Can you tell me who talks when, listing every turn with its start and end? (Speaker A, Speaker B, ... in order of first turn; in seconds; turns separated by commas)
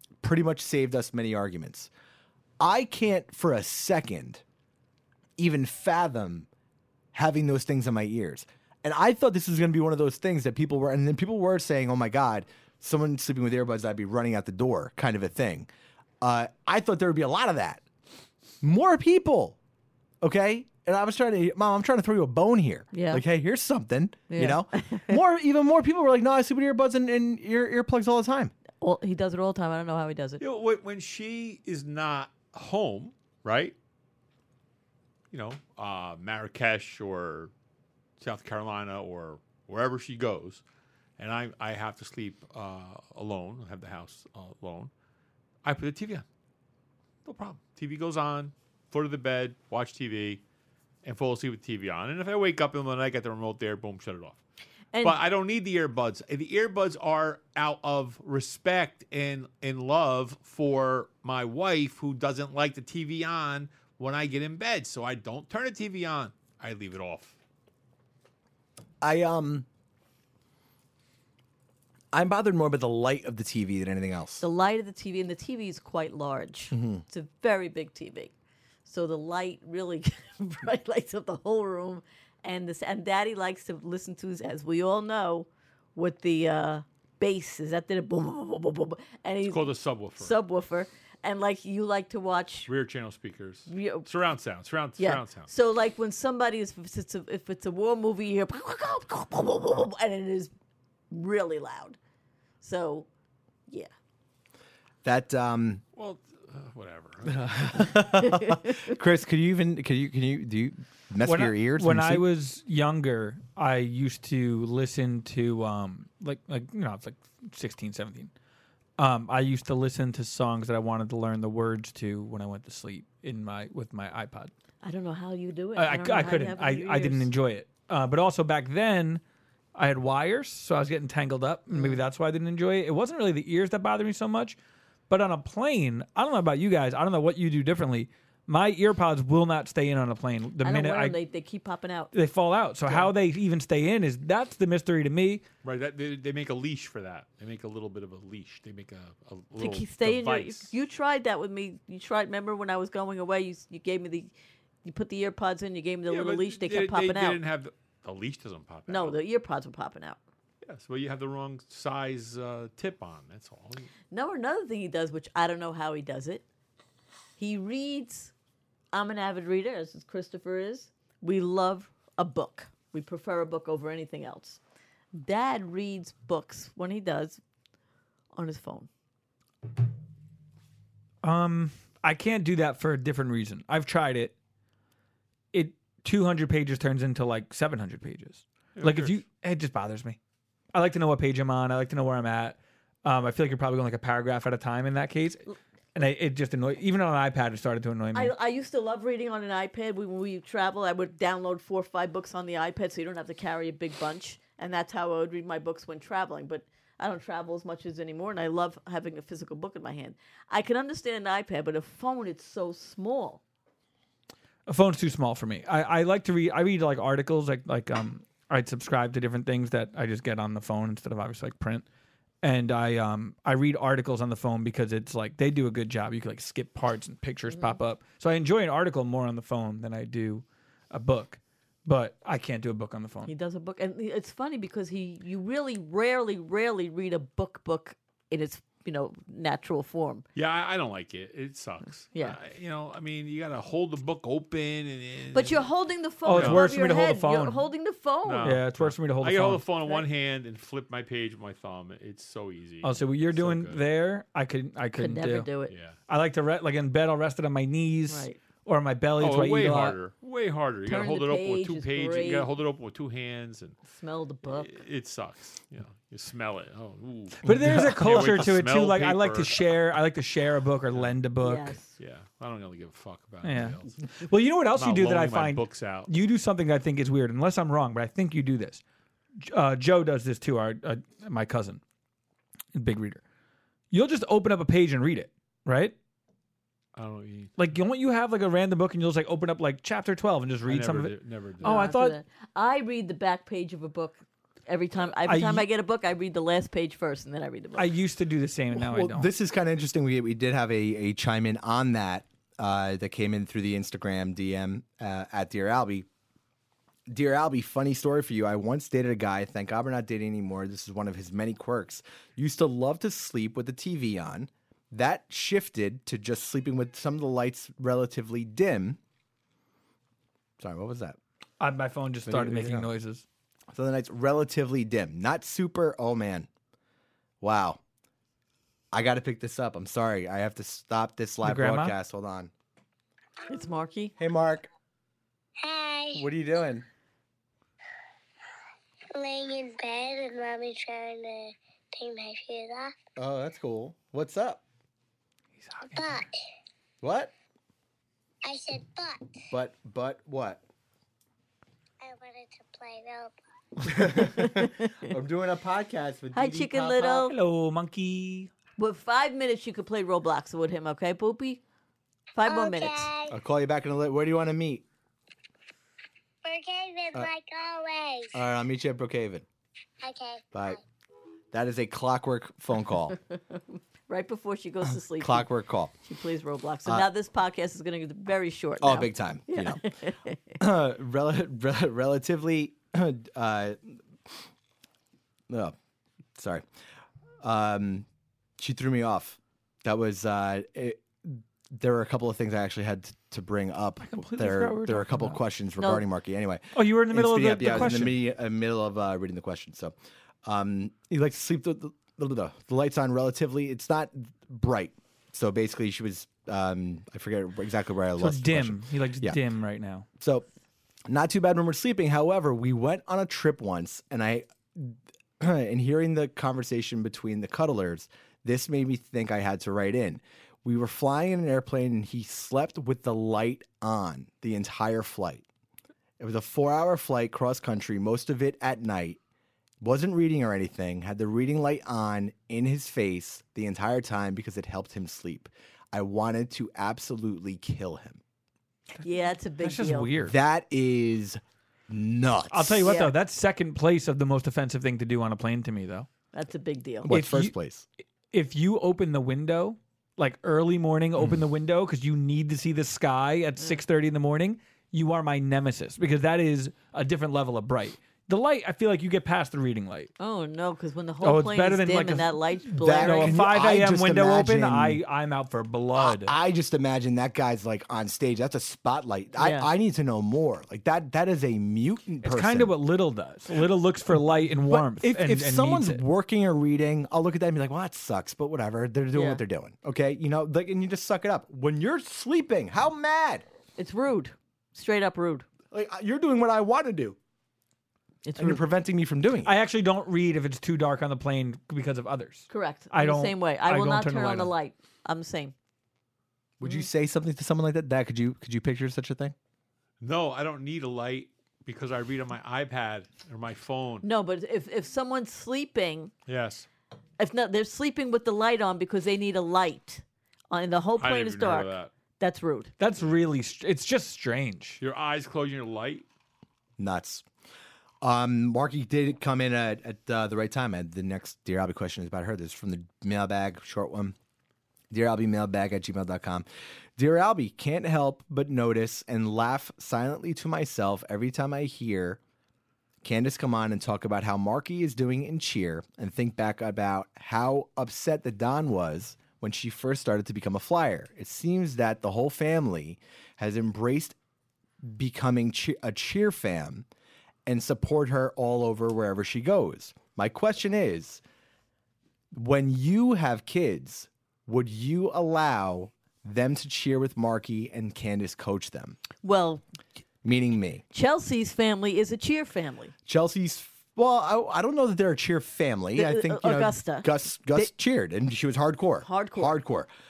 Speaker A: 0.2-1.9, Speaker A: 2.6-4.4, Speaker A: 5.4-6.5, Speaker A: 7.1-15.7, Speaker A: 16.2-17.8, Speaker A: 18.6-19.6, Speaker A: 20.2-28.5, Speaker B: 22.9-23.2, Speaker B: 24.3-25.2, Speaker B: 28.8-30.4, Speaker C: 30.4-33.7, Speaker C: 35.3-37.5, Speaker C: 38.2-40.6, Speaker C: 41.2-44.9, Speaker C: 45.6-46.2, Speaker C: 47.2-50.4, Speaker C: 51.0-54.4, Speaker B: 54.9-55.2, Speaker C: 55.0-67.3, Speaker A: 69.0-69.7, Speaker A: 72.1-74.4, Speaker B: 74.4-78.3, Speaker A: 76.7-77.0, Speaker B: 78.8-92.7, Speaker C: 89.5-90.4, Speaker C: 92.7-95.5, Speaker B: 93.7-94.1, Speaker B: 95.0-100.5, Speaker B: 101.1-102.0, Speaker B: 102.6-103.1, Speaker A: 105.0-105.8, Speaker C: 106.0-108.0, Speaker A: 107.3-112.2, Speaker B: 108.2-108.8, Speaker D: 111.2-118.3, Speaker D: 119.0-124.5, Speaker B: 124.8-127.3, Speaker D: 125.8-129.2, Speaker D: 129.7-134.6, Speaker B: 131.7-132.0, Speaker D: 135.1-141.2, Speaker B: 140.6-142.1, Speaker D: 142.1-145.4, Speaker C: 145.6-150.7, Speaker B: 149.6-154.3, Speaker B: 154.8-157.4, Speaker C: 156.1-159.2, Speaker B: 158.9-160.2, Speaker C: 160.6-163.9, Speaker B: 164.1-166.4, Speaker B: 167.4-168.3, Speaker B: 168.9-174.6, Speaker B: 175.1-177.4, Speaker B: 178.3-178.9, Speaker D: 181.2-184.3, Speaker D: 185.5-190.2, Speaker C: 188.8-189.2, Speaker D: 190.7-198.3, Speaker B: 198.1-213.4, Speaker D: 214.7-221.8, Speaker D: 222.4-233.3, Speaker B: 227.5-227.8, Speaker B: 233.2-240.2, Speaker C: 240.3-245.7, Speaker B: 245.3-248.6, Speaker D: 246.2-247.6, Speaker C: 246.3-246.6, Speaker C: 248.2-253.8, Speaker D: 248.4-249.6, Speaker D: 252.8-255.5, Speaker B: 254.9-255.7, Speaker C: 255.7-256.0, Speaker D: 256.1-260.0, Speaker B: 258.1-258.4, Speaker C: 259.2-263.8, Speaker B: 260.9-262.5, Speaker B: 263.9-264.8, Speaker C: 264.4-269.6, Speaker D: 267.4-271.7, Speaker A: 267.4-268.3, Speaker B: 271.4-271.9, Speaker C: 272.0-273.9, Speaker D: 273.4-278.8, Speaker C: 274.7-276.1, Speaker D: 279.4-281.8, Speaker D: 282.7-283.2, Speaker D: 283.9-285.9, Speaker C: 286.9-287.6, Speaker D: 287.6-292.2, Speaker C: 290.6-291.9, Speaker B: 291.6-297.9, Speaker D: 295.2-295.7, Speaker D: 297.8-299.3, Speaker A: 298.7-306.1, Speaker A: 307.1-319.0, Speaker A: 320.6-321.2, Speaker D: 321.6-323.2, Speaker A: 322.2-322.9, Speaker A: 323.7-326.5, Speaker A: 327.4-327.8, Speaker A: 328.9-332.5, Speaker D: 331.4-331.9, Speaker B: 333.5-334.1, Speaker A: 334.2-334.7, Speaker E: 335.6-336.2, Speaker A: 336.1-336.9, Speaker E: 339.1-343.0, Speaker A: 343.1-344.6, Speaker D: 345.6-346.1, Speaker E: 345.9-346.4, Speaker A: 347.0-347.3, Speaker E: 348.4-349.2, Speaker A: 349.5-350.6, Speaker E: 352.0-353.3, Speaker A: 353.8-357.2, Speaker B: 353.9-355.1, Speaker B: 356.3-357.4, Speaker D: 357.0-358.5, Speaker B: 358.8-361.6, Speaker B: 362.4-363.1, Speaker E: 362.4-363.3, Speaker A: 363.3-364.8, Speaker E: 366.4-368.4, Speaker A: 368.3-369.4, Speaker E: 370.0-370.8, Speaker A: 370.5-370.8, Speaker A: 371.5-373.1, Speaker B: 374.1-375.5, Speaker A: 374.9-375.9, Speaker B: 376.1-380.6, Speaker A: 378.8-379.8, Speaker A: 380.6-384.0, Speaker A: 385.5-385.7, Speaker A: 386.4-386.6, Speaker A: 387.4-388.1, Speaker A: 388.6-409.4, Speaker D: 394.0-395.4, Speaker B: 395.8-396.0, Speaker D: 396.7-398.2, Speaker D: 408.2-410.1, Speaker A: 410.2-410.4, Speaker A: 411.1-425.4, Speaker A: 426.2-429.2, Speaker A: 429.8-438.2, Speaker B: 439.0-440.1, Speaker D: 439.6-440.4, Speaker A: 440.2-443.0, Speaker D: 442.5-446.1, Speaker B: 442.8-443.1, Speaker B: 446.3-447.1, Speaker A: 447.0-447.9, Speaker D: 447.1-447.5, Speaker D: 448.3-460.1, Speaker B: 460.2-463.4, Speaker D: 461.2-466.3, Speaker A: 462.7-465.0, Speaker A: 465.9-472.7, Speaker B: 469.4-469.7, Speaker D: 472.2-476.0, Speaker A: 474.6-483.4, Speaker B: 479.1-479.4, Speaker B: 483.8-485.4, Speaker A: 485.7-487.2, Speaker B: 488.2-488.6, Speaker A: 488.4-489.5, Speaker D: 489.4-494.5, Speaker B: 492.5-495.5, Speaker A: 496.6-499.3, Speaker C: 500.0-504.1, Speaker B: 504.0-506.1, Speaker C: 506.3-506.7, Speaker B: 507.2-512.7, Speaker C: 511.0-511.9, Speaker D: 512.8-514.8, Speaker C: 514.8-516.0, Speaker A: 516.8-517.2, Speaker A: 518.0-524.1, Speaker A: 524.9-526.4, Speaker A: 527.0-532.2, Speaker A: 533.0-544.1, Speaker A: 544.8-546.9, Speaker A: 547.5-551.2, Speaker A: 552.3-559.0, Speaker B: 559.2-559.6, Speaker A: 560.2-560.8, Speaker B: 560.9-562.9, Speaker A: 563.0-569.9, Speaker B: 566.0-567.7, Speaker B: 569.0-569.5